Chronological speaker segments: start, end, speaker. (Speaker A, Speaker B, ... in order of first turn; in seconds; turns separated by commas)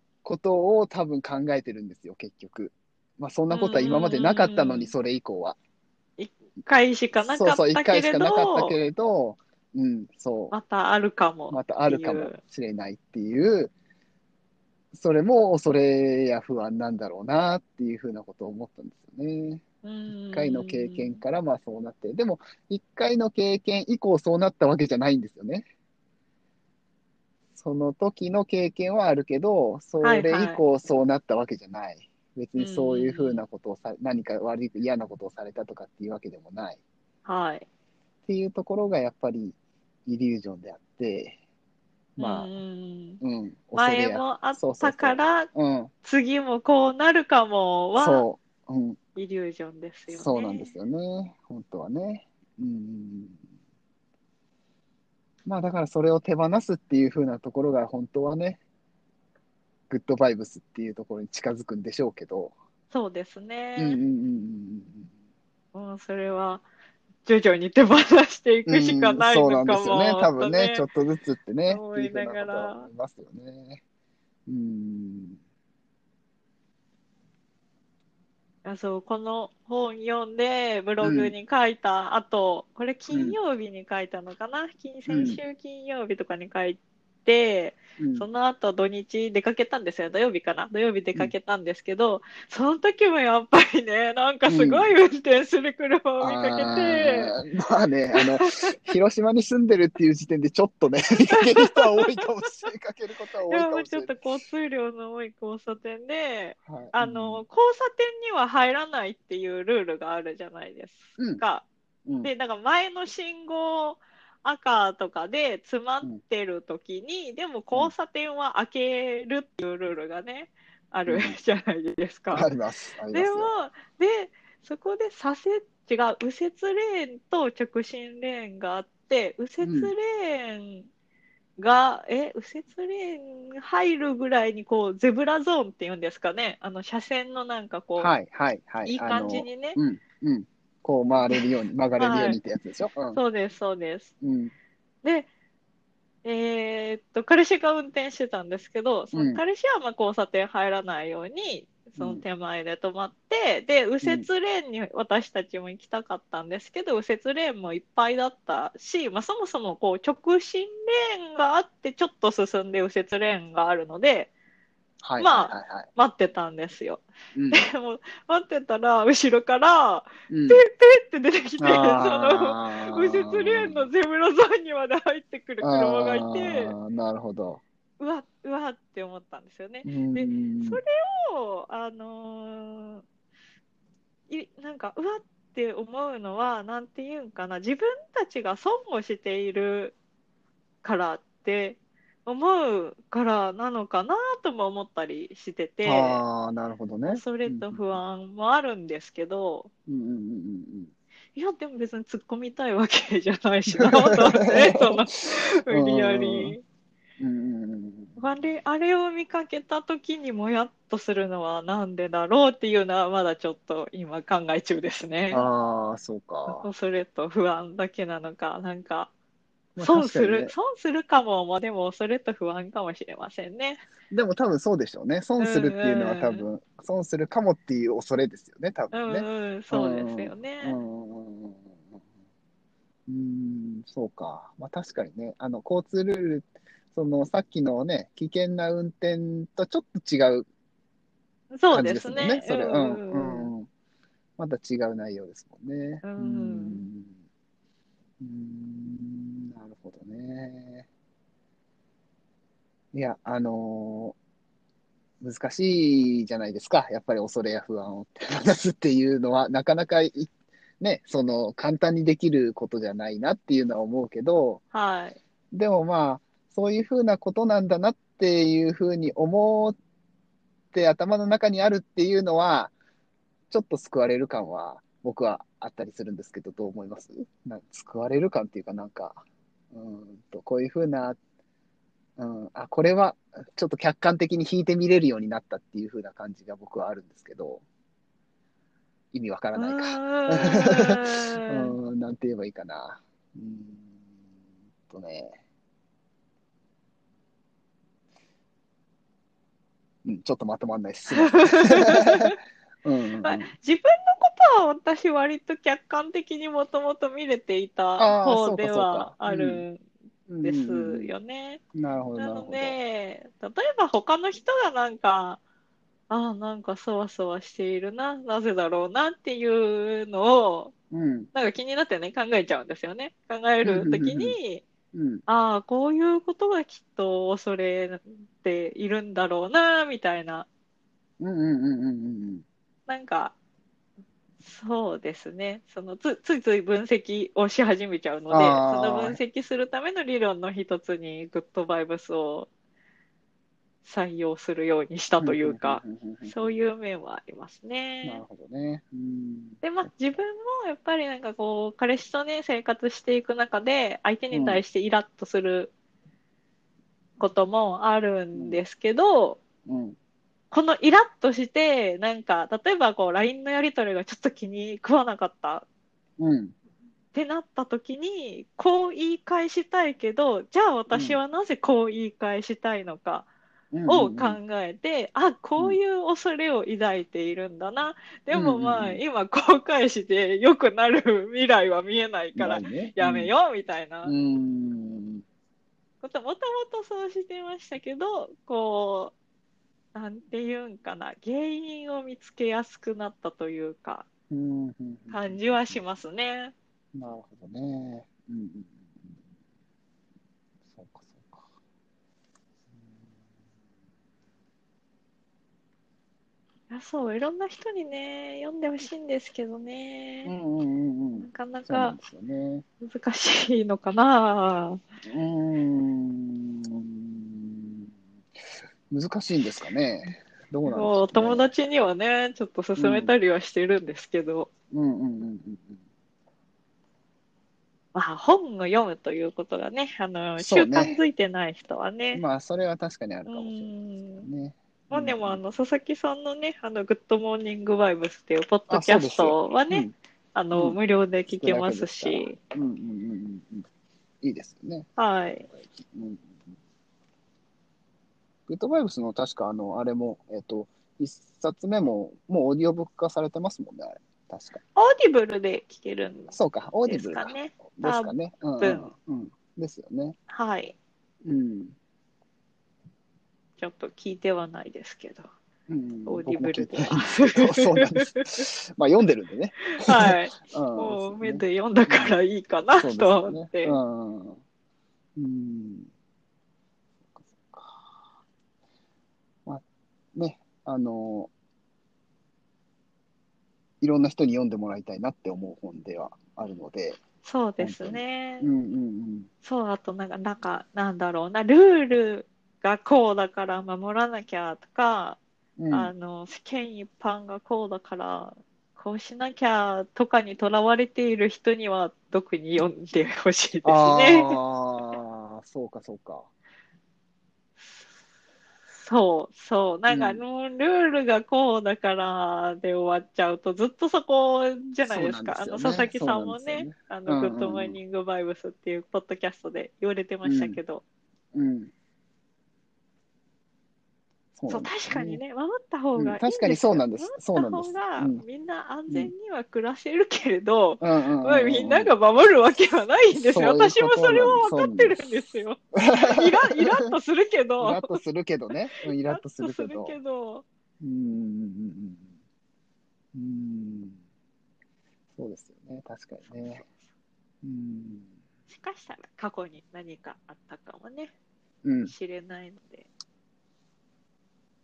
Speaker A: 0.2-5.5, Speaker B: 3.5-4.9, Speaker B: 6.2-8.8, Speaker A: 7.2-10.6, Speaker B: 10.5-12.4, Speaker A: 11.5-13.7, Speaker A: 14.9-19.6, Speaker B: 19.8-21.2, Speaker A: 20.3-25.7, Speaker A: 27.5-36.8, Speaker B: 30.0-30.6, Speaker B: 32.6-33.4, Speaker B: 37.2-37.6, Speaker A: 38.3-41.4, Speaker A: 42.2-42.5, Speaker B: 42.2-43.2, Speaker A: 43.2-45.9, Speaker B: 43.8-45.5, Speaker B: 46.0-48.2, Speaker A: 48.0-49.0, Speaker B: 49.1-50.7, Speaker A: 50.1-53.4, Speaker A: 55.5-58.6, Speaker A: 59.9-62.5, Speaker B: 62.9-64.0, Speaker A: 63.8-65.1, Speaker B: 65.7-66.6, Speaker B: 67.2-70.8, Speaker A: 68.7-73.8, Speaker B: 71.7-72.9, Speaker A: 74.5-75.4, Speaker B: 78.6-97.3, Speaker A: 81.0-81.3, Speaker A: 83.1-83.4, Speaker A: 85.1-85.4, Speaker A: 88.0-88.3, Speaker A: 94.5-94.9, Speaker A: 96.2-104.2, Speaker B: 98.1-98.8, Speaker B: 101.3-102.7, Speaker B: 103.5-111.6, Speaker A: 106.7-107.4, Speaker A: 111.2-111.4, Speaker B: 112.2-122.5, Speaker A: 121.1-121.4, Speaker A: 122.3-123.5, Speaker B: 123.1-130.9, Speaker A: 129.6-129.9, Speaker B: 131.6-138.1, Speaker A: 138.0-143.2, Speaker B: 138.8-139.8, Speaker B: 141.3-142.4, Speaker B: 143.1-144.1, Speaker A: 144.2-144.5, Speaker B: 145.0-145.3, Speaker B: 146.2-164.3, Speaker A: 149.1-149.4, Speaker A: 152.0-152.2, Speaker A: 154.0-154.3, Speaker A: 165.0-165.9, Speaker B: 165.2-176.7, Speaker A: 167.3-167.6, Speaker A: 170.3-170.6, Speaker A: 171.6-173.9, Speaker A: 175.6-177.6, Speaker B: 178.0-183.0, Speaker A: 179.8-180.8, Speaker B: 184.3-189.9, Speaker B: 190.8-196.2, Speaker A: 195.8-198.0, Speaker B: 197.1-199.7, Speaker A: 199.9-200.9, Speaker B: 201.3-206.6, Speaker A: 203.7-205.1, Speaker A: 205.7-206.6, Speaker A: 207.2-208.2, Speaker B: 208.2-215.4, Speaker A: 215.3-216.7, Speaker B: 216.5-219.1, Speaker A: 219.8-220.5, Speaker B: 219.8-223.8, Speaker A: 224.1-231.6, Speaker B: 225.4-226.4, Speaker B: 228.9-230.8, Speaker A: 233.1-240.4, Speaker B: 241.5-243.5, Speaker A: 241.7-243.7, Speaker A: 244.4-247.1, Speaker B: 246.0-246.8, Speaker A: 248.2-250.9, Speaker A: 252.9-254.2, Speaker A: 255.2-264.6, Speaker B: 264.7-265.2, Speaker A: 265.5-269.8, Speaker A: 270.7-272.7, Speaker A: 273.5-281.2, Speaker A: 282.2-287.6, Speaker A: 289.1-293.9, Speaker B: 289.5-291.7, Speaker A: 294.9-295.4, Speaker A: 300.0-303.5, Speaker B: 301.1-302.4, Speaker B: 303.2-309.8, Speaker A: 308.0-309.6, Speaker A: 310.3-311.1, Speaker B: 310.4-311.6, Speaker A: 311.7-312.8, Speaker B: 312.2-315.4, Speaker B: 316.1-320.7, Speaker A: 320.9-321.3, Speaker B: 321.3-324.6, Speaker A: 323.6-324.4, Speaker A: 324.9-325.2, Speaker B: 325.3-330.5, Speaker A: 331.2-332.4, Speaker B: 332.9-333.3, Speaker B: 334.4-342.5, Speaker A: 338.3-339.2, Speaker B: 343.8-348.2, Speaker A: 345.2-346.5, Speaker A: 348.0-349.6, Speaker B: 349.6-355.7, Speaker A: 354.3-354.6, Speaker B: 357.2-359.4, Speaker A: 359.7-360.0, Speaker B: 360.5-365.6, Speaker A: 366.2-366.5, Speaker B: 367.1-373.3, Speaker A: 370.9-371.2, Speaker A: 373.7-374.4, Speaker B: 373.9-384.1, Speaker A: 378.3-379.0, Speaker A: 382.4-383.3, Speaker A: 384.0-385.2, Speaker B: 386.0-389.1, Speaker B: 389.9-394.0, Speaker A: 394.3-395.8, Speaker B: 395.1-396.5, Speaker A: 396.9-398.8, Speaker A: 400.7-401.4, Speaker B: 406.7-410.3, Speaker A: 410.2-412.6, Speaker B: 411.2-411.9, Speaker B: 412.8-414.8, Speaker A: 415.0-417.9, Speaker A: 418.9-421.5, Speaker B: 420.7-424.5, Speaker A: 422.8-423.1, Speaker A: 424.7-425.8, Speaker B: 427.9-432.2, Speaker A: 430.4-431.0, Speaker A: 432.1-435.4, Speaker B: 433.3-434.3, Speaker B: 434.9-442.4, Speaker A: 438.7-439.9, Speaker A: 441.3-443.7, Speaker A: 444.2-444.9, Speaker B: 445.0-445.5, Speaker A: 445.5-446.2, Speaker A: 448.5-454.6, Speaker B: 454.8-458.9, Speaker A: 456.3-460.2, Speaker B: 460.3-460.7, Speaker A: 461.2-461.8, Speaker B: 463.6-465.3, Speaker A: 465.7-472.1, Speaker B: 466.1-468.5, Speaker B: 469.7-473.8, Speaker A: 472.8-474.4, Speaker A: 475.1-475.9, Speaker A: 477.1-478.0, Speaker A: 480.1-481.3, Speaker A: 483.8-487.0, Speaker B: 487.2-488.5, Speaker A: 487.6-489.3, Speaker B: 489.4-495.2, Speaker A: 495.6-495.9, Speaker B: 495.7-504.4, Speaker A: 503.6-506.3, Speaker B: 508.7-520.8, Speaker A: 509.9-510.2, Speaker A: 514.9-517.8, Speaker A: 520.2-520.6, Speaker A: 521.3-521.7, Speaker A: 524.4-525.2, Speaker B: 524.5-538.0, Speaker A: 526.0-528.2, Speaker A: 528.9-529.1, Speaker A: 530.8-531.9, Speaker A: 533.1-535.0, Speaker A: 535.7-536.9, Speaker A: 537.6-540.0, Speaker B: 538.7-540.4, Speaker A: 540.8-542.0, Speaker A: 543.1-544.0, Speaker A: 545.2-546.6, Speaker B: 546.3-546.7, Speaker A: 547.4-548.1, Speaker B: 548.5-551.1, Speaker A: 551.6-551.9, Speaker B: 551.9-552.9